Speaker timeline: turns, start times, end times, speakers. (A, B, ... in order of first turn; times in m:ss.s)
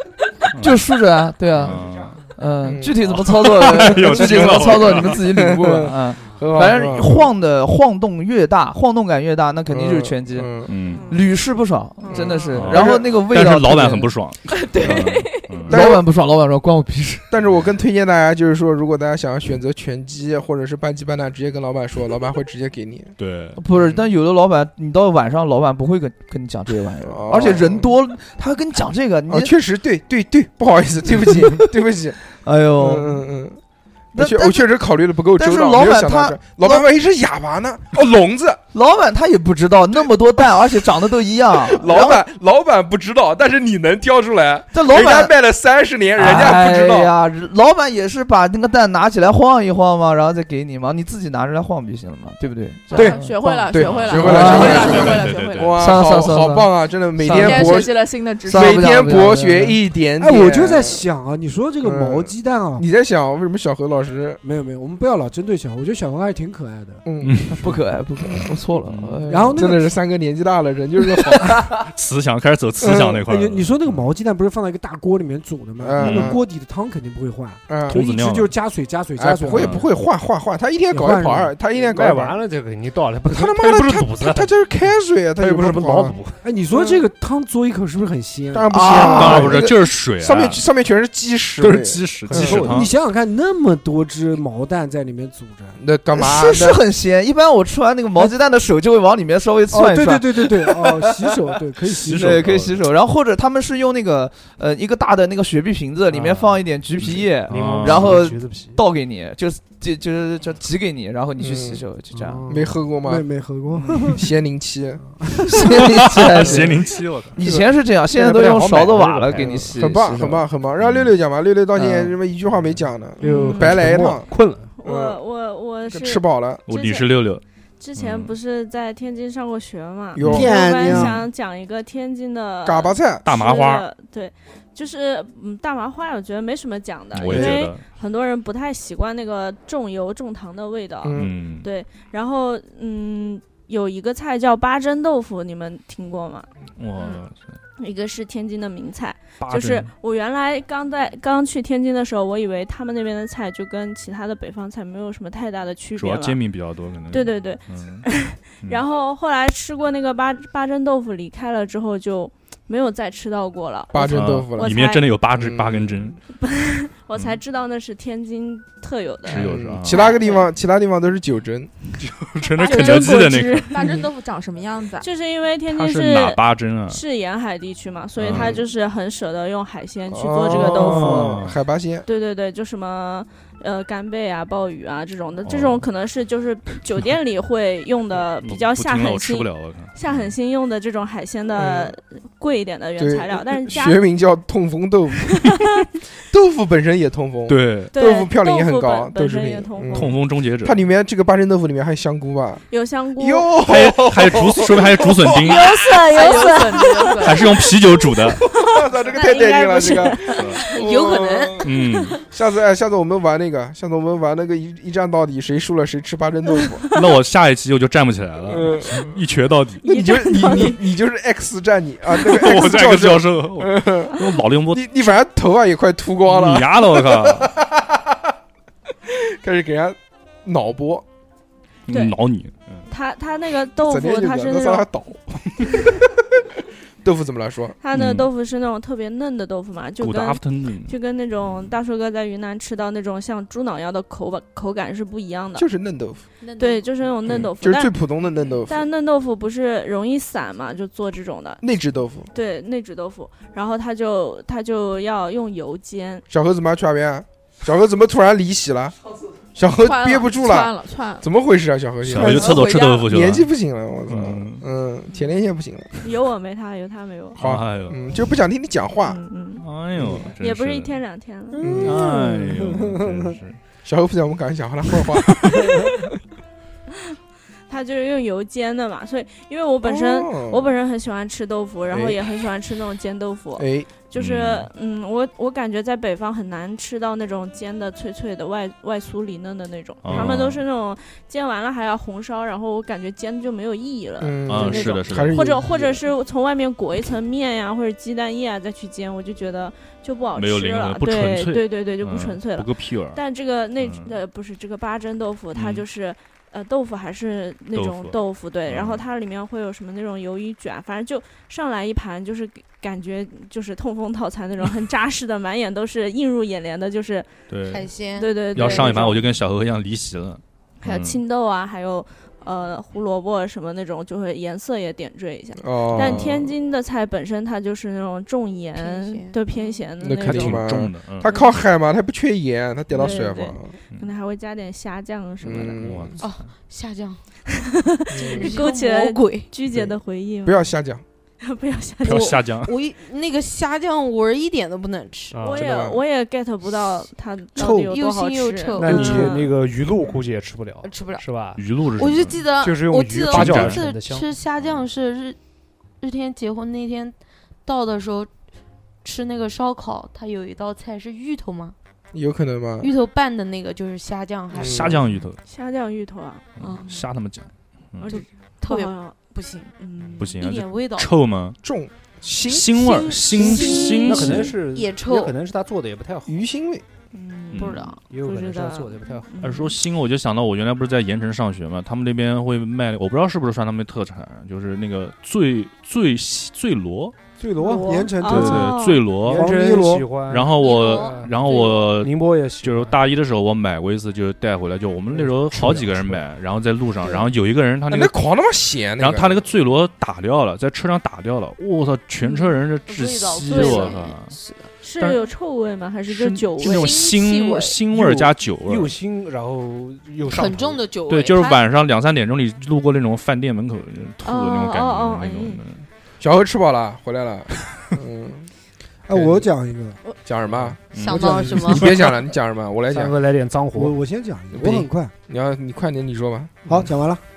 0:00.5-0:00.9 A
0:00.6-0:14.1 B
0:01.5-0:02.3 A
0:02.6-0:03.0 C
0:03.0-0:05.2 A
0:03.8-0:07.2 C
0:09.7-0:10.7 C
0:10.6-0:11.1 A
0:10.9-0:11.2 D
0:12.0-0:12.5 D
0:12.1-0:13.0 C
0:12.5-0:15.8 A
0:14.5-0:15.6 E
0:15.7-0:17.3 B
0:15.7-0:16.0 C
0:17.3-0:23.2 C
0:23.2-0:23.6 A
0:23.6-0:29.5 B
0:27.0-0:27.9 C
0:29.3-0:32.2 C
0:31.2-0:31.6 B
0:32.4-0:33.2 B
0:32.8-0:33.6 C
0:34.1-0:34.7 B
0:34.1-0:38.6 C
0:35.4-0:36.8 B
0:38.7-0:42.2 B
0:41.5-0:47.1 C
0:44.7-0:45.3 B
0:46.2-0:59.8 B
0:52.9-0:55.8 E
0:52.9-0:53.2 F
0:53.7-0:57.9 C
0:53.8-0:55.8 A
0:57.3-0:59.2 E
0:58.5-1:01.0 C
1:00.2-1:02.8 F
1:01.8-1:04.4 C
1:04.4-1:07.0 F
1:07.0-1:07.4 C
1:07.2-1:07.6 A
1:07.5-1:09.7 B
1:08.8-1:09.2 A
1:09.3-1:09.9 F
1:09.6-1:11.6 C
1:11.9-1:14.0 A
1:12.8-1:13.2 C
1:13.1-1:19.8 F
1:15.8-1:16.4 C
1:16.0-1:16.3 A
1:17.7-1:18.0 C
1:17.9-1:18.5 A
1:19.2-1:22.4 C
1:19.5-1:19.9 A
1:20.9-1:21.5 F
1:21.8-1:24.6 G
1:23.3-1:26.1 C
1:25.4-1:26.4 G
1:26.4-1:29.5 F
1:26.7-1:27.0 C
1:28.5-1:32.6 C
1:28.7-1:29.8 B
1:29.1-1:30.6 A
1:31.6-1:32.9 A
1:32.1-1:32.9 G
1:32.3-1:35.8 F
1:35.8-1:36.8 C
1:36.1-1:41.1 B
1:39.7-1:42.5 F
1:42.0-1:42.8 A
1:42.1-1:52.4 B
1:46.1-1:46.6 G
1:47.0-1:48.3 A
1:47.4-1:48.8 G
1:51.4-1:51.8 C
1:52.1-1:54.2 F
1:52.5-1:53.2 C
1:53.8-1:54.2 A
1:54.2-1:55.0 C
1:55.2-1:55.6 F
1:55.5-2:00.4 B
1:56.2-1:57.4 A
1:57.4-1:59.6 G
1:59.4-2:04.3 C
2:00.8-2:01.1 A
2:01.8-2:02.1 B
2:03.2-2:03.8 D
2:03.2-2:04.7 G
2:04.7-2:07.1 D
2:04.8-2:05.2 C
2:05.9-2:06.6 C
2:06.7-2:07.4 A
2:07.8-2:26.5 D
2:07.9-2:08.3 A
2:10.2-2:11.1 C
2:10.2-2:11.2 A
2:10.2-2:11.1 F
2:12.6-2:13.2 C
2:13.2-2:13.9 A
2:17.1-2:17.8 A
2:17.2-2:17.6 C
2:21.0-2:21.3 C
2:21.1-2:21.7 A
2:26.8-2:27.6 A
2:27.8-2:36.4 D
2:29.4-2:29.9 A
2:36.0-2:38.0 A
2:37.1-2:45.1 D
2:43.9-2:44.7 C
2:44.0-2:46.2 A
2:45.3-2:46.2 C
2:46.3-2:50.4 D
2:49.2-2:50.2 A
2:49.3-2:51.8 C
2:52.0-2:53.9 A
2:52.5-2:53.8 D
2:52.6-2:55.1 E
2:55.0-3:01.4 D
2:55.7-2:57.0 A
2:58.2-2:58.6 A
2:58.2-2:58.6 C
3:00.1-3:02.0 C
3:00.5-3:01.6 A
3:02.0-3:14.0 D
3:05.4-3:05.8 A
3:08.4-3:10.3 A
3:11.6-3:11.9 C
3:13.0-3:15.5 C
3:15.2-3:15.8 D
3:16.3-3:22.6 C
3:17.5-3:18.0 A
3:17.9-3:20.2 D
3:19.9-3:20.8 A
3:22.7-3:23.6 D
3:23.2-3:25.7 C
3:23.6-3:25.7 A
3:25.3-3:27.6 H
3:26.1-3:27.4 E
3:27.2-3:28.4 A
3:28.5-3:31.7 C
3:28.6-3:30.6 D
3:30.3-3:30.6 A
3:30.5-3:31.7 H
3:31.6-3:32.2 A
3:32.2-3:36.8 C
3:36.9-3:39.8 A
3:38.5-3:39.1 C
3:39.8-3:40.8 D
3:39.8-3:44.1 C
3:42.2-3:44.8 A
3:44.7-3:48.0 C
3:46.3-3:47.5 A
3:49.1-3:51.0 C
3:51.9-3:52.8 A
3:51.9-3:52.2 D
3:52.9-3:54.9 D
3:53.8-3:56.0 C
3:57.0-3:57.8 C
3:57.8-4:05.7 D
3:57.9-3:58.3 A
4:00.0-4:00.9 A
4:05.6-4:06.2 C
4:06.4-4:06.9 H
4:06.6-4:08.0 D
4:07.2-4:08.9 C
4:08.6-4:11.6 D
4:11.6-4:12.3 C
4:12.3-4:16.2 D
4:16.3-4:18.9 C
4:19.5-4:26.0 C
4:19.8-4:21.2 E
4:22.0-4:23.5 A
4:22.7-4:23.0 E
4:24.1-4:24.6 A
4:26.0-4:27.4 D
4:27.4-4:28.0 A
4:27.4-4:29.2 C
4:29.0-4:29.6 D
4:29.6-4:31.0 A
4:30.0-4:30.2 C
4:30.4-4:31.8 D
4:31.5-4:33.3 F
4:31.6-4:32.0 C
4:31.8-4:33.6 A
4:33.8-4:35.9 C
4:37.7-5:17.4 D
4:39.8-4:40.7 C
4:41.9-4:42.2 C
4:43.6-4:43.9 C
4:44.1-4:44.7 A
4:50.0-4:50.6 A
4:50.1-4:50.4 C
4:54.2-4:56.0 C
4:54.4-4:55.6 A
5:00.3-5:03.2 A
5:03.8-5:04.2 A
5:05.5-5:05.8 A
5:07.7-5:09.0 A
5:17.5-5:17.9 A
5:17.7-5:19.2 H
5:18.1-5:19.2 D
5:18.5-5:21.2 A
5:20.8-5:31.6 D
5:25.6-5:26.5 C
5:25.9-5:26.4 A
5:28.7-5:29.8 H
5:30.0-5:33.7 C
5:30.1-5:31.3 A
5:32.9-5:36.0 D
5:35.4-5:36.2 C
5:35.8-5:36.5 A
5:36.2-5:37.2 H
5:37.6-5:40.6 D
5:38.1-5:38.6 C
5:38.1-5:39.5 H
5:39.7-5:41.0 C
5:41.4-5:42.4 D
5:42.0-5:42.7 A
5:42.1-5:45.4 H
5:45.3-5:45.6 G
5:45.4-5:49.5 D
5:45.5-5:46.0 C
5:47.6-5:49.3 H
5:47.6-5:47.8 F
5:48.8-5:51.6 G
5:50.8-5:51.2 H
5:51.5-5:52.4 A
5:51.9-5:55.4 H
5:52.6-5:54.3 G
5:53.3-5:53.8 A
5:56.0-5:58.3 H
5:59.0-6:01.7 H
6:02.1-6:02.9 C
6:02.8-6:05.0 H
6:04.5-6:04.9 C
6:04.5-6:05.4 A
6:05.4-6:06.9 D
6:06.6-6:08.1 A
6:06.6-6:06.9 H
6:08.0-6:09.2 D
6:08.1-6:09.7 H
6:09.8-6:10.3 D
6:10.2-6:11.6 A
6:10.3-6:11.1 H
6:11.6-6:13.6 C
6:12.4-6:14.5 A
6:12.8-6:15.3 H
6:13.4-6:14.3 D
6:14.0-6:16.4 G
6:16.3-6:16.8 C
6:17.1-6:19.7 D
6:17.5-6:17.8 A
6:17.6-6:18.0 H
6:18.1-6:19.4 G
6:19.4-6:27.1 A
6:27.4-6:30.1 F
6:27.6-6:29.1 D
6:28.2-6:29.5 A
6:29.3-6:31.3 G
6:30.2-6:38.2 A
6:30.5-6:31.9 H
6:31.9-6:33.0 G
6:35.1-6:36.2 G
6:37.9-6:39.4 C
6:39.0-6:44.3 A
6:42.2-6:42.5 D
6:42.8-6:44.7 H
6:43.5-6:44.0 D
6:44.8-6:47.0 D
6:45.0-6:45.3 A
6:46.1-6:48.9 A
6:46.6-6:47.8 H
6:47.9-6:50.8 G
6:50.2-6:51.6 H
6:51.1-6:55.8 A
6:54.2-6:55.6 D
6:56.2-6:58.5 C
6:59.1-7:00.0 F
6:59.1-6:59.5 C
7:00.2-7:00.8 C
7:00.9-7:01.9 A
7:00.9-7:01.9 H
7:01.0-7:01.9 F
7:01.6-7:03.1 C
7:02.9-7:04.0 G
7:03.7-7:05.1 F
7:04.5-7:06.7 C
7:06.7-7:07.2 F